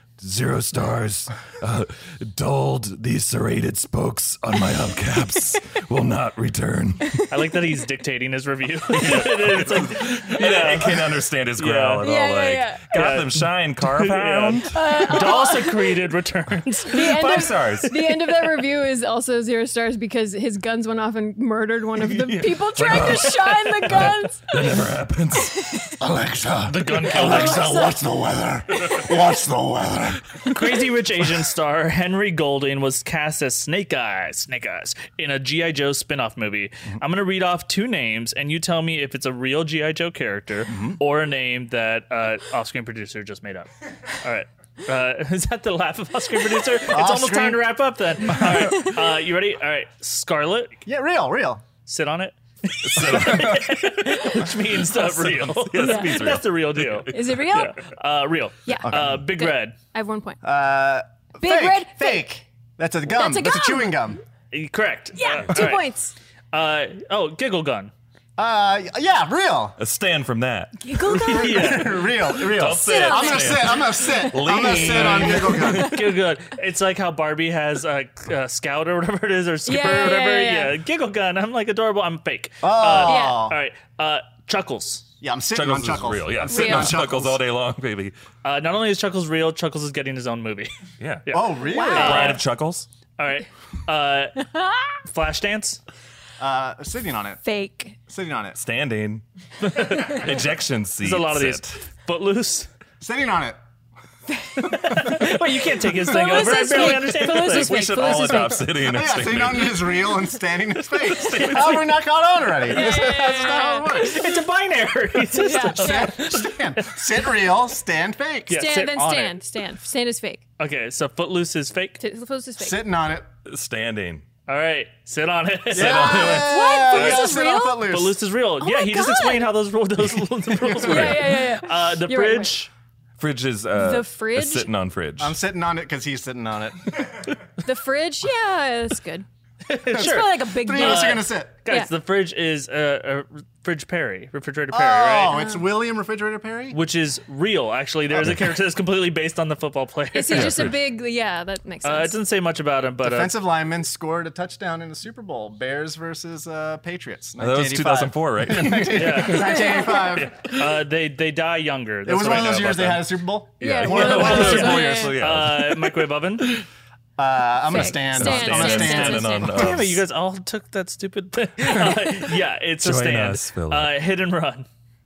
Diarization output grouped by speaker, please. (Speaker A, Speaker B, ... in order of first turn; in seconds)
Speaker A: 0.2-7.2, 8.9-15.4, 16.9-18.5, 21.9-26.0, 26.8-27.5, 28.7-29.0, 52.8-57.6, 69.8-71.1, 72.2-75.9, 85.5-88.1, 91.0-92.9, 98.5-99.2, 99.8-101.7, 107.3-110.1, 111.1-111.8, 123.5-124.2, 130.8-131.4, 133.2-135.3, 150.3-150.7, 157.4-159.2, 163.6-165.9, 167.8-170.0, 172.8-173.9
Speaker B: 7.3-12.1, 12.9-17.1, 26.6-27.9, 30.5-50.8, 51.9-59.8, 64.5-65.9, 66.5-67.9, 71.1-72.1, 74.7-85.0, 88.4-90.7, 91.2-92.4, 93.2-94.4, 95.0-95.8, 99.6-100.4, 101.0-102.7, 104.6-108.2, 111.3-111.7, 112.7-117.0, 118.5-119.4, 120.6-122.0, 124.5-132.7, 139.7-145.4, 146.7-150.7, 151.8-153.3, 158.9-163.1, 164.1-166.6, 169.5-174.7
Speaker C: 12.0-13.1, 14.7-16.0, 16.9-25.9, 27.0-28.1, 48.6-48.9, 55.8-56.4, 57.1-57.9, 58.6-60.4, 61.4-62.3, 63.1-64.1, 65.2-66.1, 70.8-71.9, 72.6-74.9, 75.5-76.1, 79.7-80.7, 83.0-83.5, 86.5-87.0, 91.7-92.4, 94.5-94.9, 97.4-98.0, 104.4-105.2, 106.0-108.7, 112.6-114.1, 115.3-116.2, 118.5-120.4, 122.0-122.8, 125.8-127.8, 128.6-129.5, 130.7-132.5, 133.8-134.7, 137.6-139.2, 139.9-141.9, 145.3-145.6, 150.1-152.2, 159.5-160.1, 163.6-165.1, 167.6-169.7
Speaker D: 26.0-30.8, 40.7-41.0, 46.9-47.6, 48.3-48.7, 50.9-51.6, 53.0-53.6, 58.8-59.2, 60.4-64.2, 68.4-69.8, 71.0-76.0, 82.6-83.6, 85.2-87.4, 91.3-92.4, 96.4-97.4, 98.1-98.6, 103.0-103.6, 108.8-114.3, 115.8-118.6, 122.6-123.2, 125.7-128.2, 130.6-131.1, 135.2-137.2, 139.9-141.6, 144.7-146.8, 153.0-160.6, 162.0-165.1, 167.2-169.5